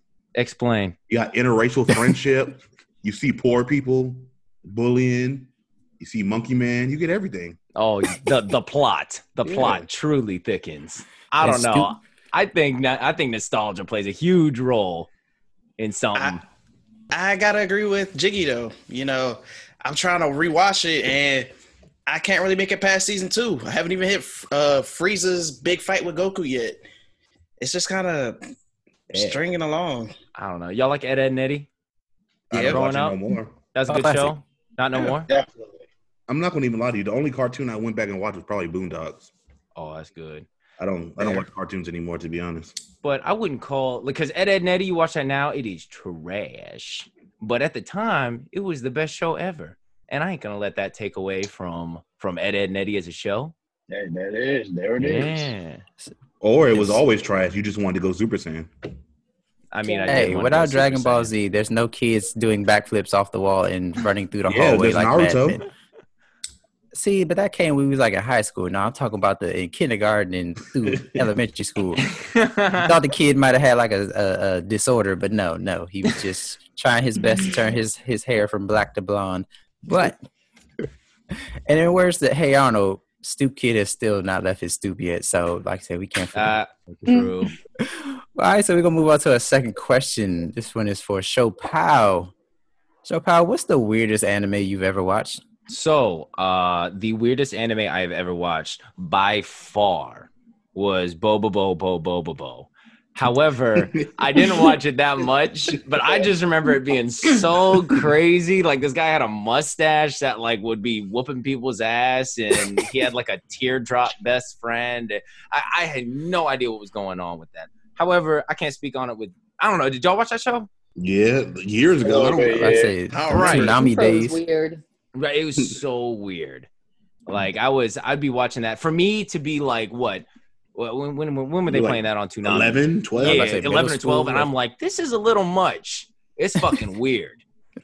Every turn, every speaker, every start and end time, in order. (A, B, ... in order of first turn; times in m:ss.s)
0:00.4-0:01.0 A
0:01.1-0:07.6 B
0:07.8-0:15.1 A
0:09.5-0:09.8 C
0:11.4-0:11.9 C
0:15.8-0:16.4 A
0:17.1-0:21.5 D
0:22.1-0:26.8 D
0:27.6-0:28.4 D
0:29.1-0:29.4 B
0:29.1-0:30.1 D
0:30.4-0:31.7 A
0:32.5-0:33.6 B
0:32.5-0:32.8 D
0:32.6-0:33.2 A
0:33.7-0:35.3 A
0:33.9-0:34.4 C
0:35.0-0:35.8 E
0:36.3-0:39.3 B
0:39.8-0:40.5 A
0:40.8-0:42.8 B
0:43.0-0:53.5 A
0:53.9-0:55.5 E
0:55.0-0:55.8 A
0:56.4-0:58.7 B
0:56.7-0:57.0 C
0:59.7-1:01.3 A
0:59.8-1:00.3 F
1:00.1-1:05.6 C
1:04.5-1:05.6 B
1:06.9-1:12.1 C
1:12.1-1:12.9 A
1:12.7-1:20.2 C
1:21.7-1:27.2 C
1:26.3-1:27.5 A
1:27.8-1:32.3 C
1:33.0-1:35.4 C
1:35.7-2:00.7 A
1:44.4-1:44.7 B
2:01.0-2:02.9 B
2:02.0-2:02.9 E
2:02.5-2:04.4 C
2:03.1-2:03.9 D
2:03.3-2:04.8 F
2:05.2-2:06.7 A
2:07.3-2:17.4 A
2:11.7-2:14.3 B
2:13.2-2:14.5 C